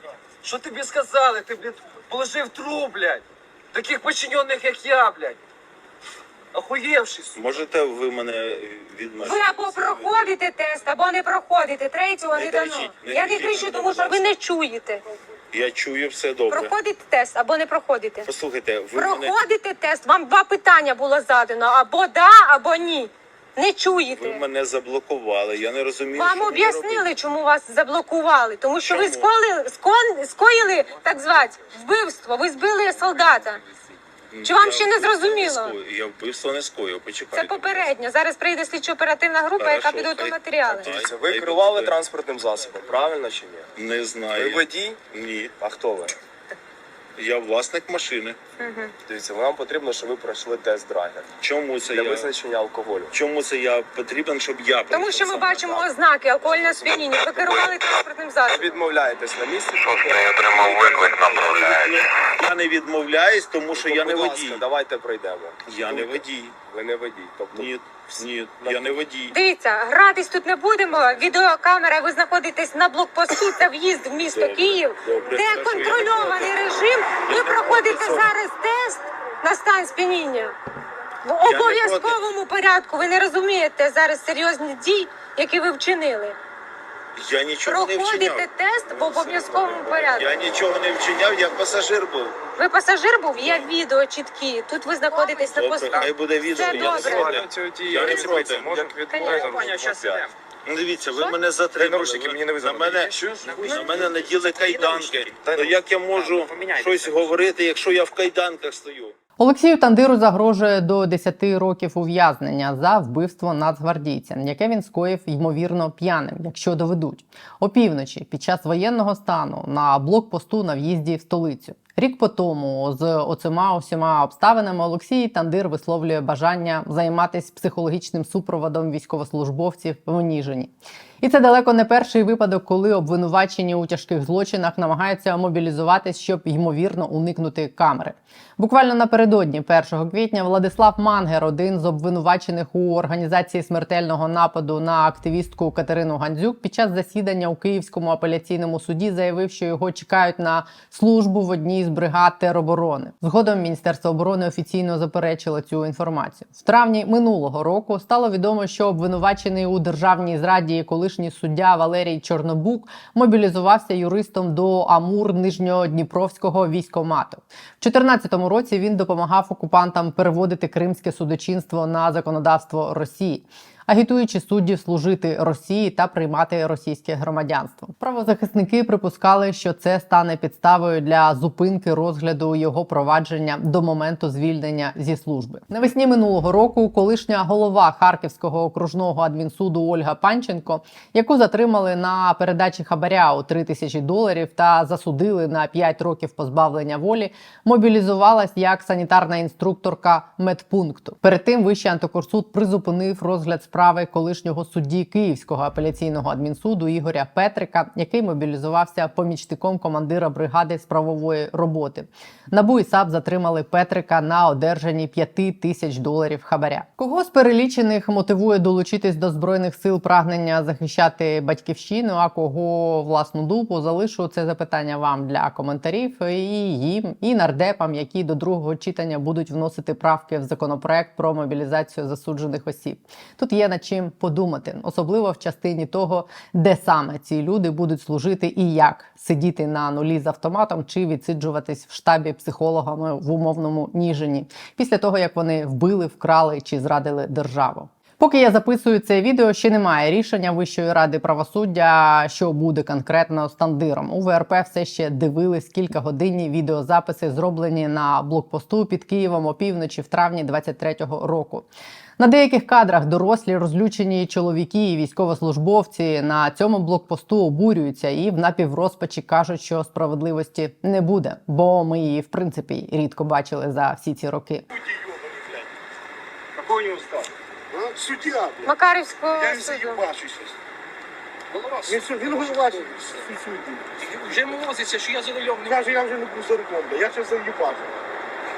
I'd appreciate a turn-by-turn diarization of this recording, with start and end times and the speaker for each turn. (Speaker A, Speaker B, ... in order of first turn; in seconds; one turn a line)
Speaker A: 0.4-3.2
Speaker B: 1.4-1.7
Speaker B: 2.6-3.2
Speaker A: 3.7-5.4
Speaker B: 5.1-5.4
Speaker A: 6.5-7.3
Speaker C: 7.3-10.3
Speaker D: 9.2-15.0
Speaker C: 12.3-14.3
Speaker C: 15.5-16.8
Speaker D: 16.5-18.3
Speaker C: 18.2-19.3
Speaker D: 18.9-24.4
Speaker C: 24.1-27.1
Speaker D: 26.2-33.6
Speaker C: 28.8-29.3
Speaker C: 34.3-37.9
Speaker D: 34.4-35.8
Speaker D: 37.3-40.9
Speaker C: 39.6-42.0
Speaker B: 40.8-43.7
Speaker C: 43.8-45.5
Speaker B: 44.3-45.0
Speaker B: 45.6-46.1
Speaker C: 47.2-48.4
Speaker D: 48.6-48.9
Speaker B: 49.1-51.3
Speaker C: 51.4-52.3
Speaker B: 51.9-53.1
Speaker C: 53.1-55.9
Speaker D: 54.9-58.7
Speaker B: 56.4-57.7
Speaker B: 58.5-61.8
Speaker C: 60.4-64.6
Speaker B: 63.7-69.0
Speaker C: 65.7-66.6
Speaker C: 67.5-69.4
Speaker D: 69.3-80.5
Speaker C: 74.3-76.5
Speaker C: 77.3-78.3
Speaker D: 81.2-86.4
Speaker C: 81.4-82.2
Speaker C: 87.2-92.4
Speaker D: 87.7-90.3
Speaker D: 92.6-97.5
Speaker C: 95.5-109.2
Speaker B: 96.6-100.3
Speaker D: 99.1-99.7
Speaker A: 99.3-100.3
Speaker B: 101.8-106.7
Speaker A: 103.3-105.4
Speaker A: 106.1-107.5
Speaker E: 109.4-261.7
Speaker E: 262.2-274.7
Speaker F: 274.7-275.7
Speaker F: 276.6-278.7
Speaker D: 278.6-280.0
Speaker F: 279.3-280.6
Speaker G: 281.5-282.9
Speaker F: 281.8-283.9
Speaker G: 284.0-285.8
Speaker F: 285.6-287.9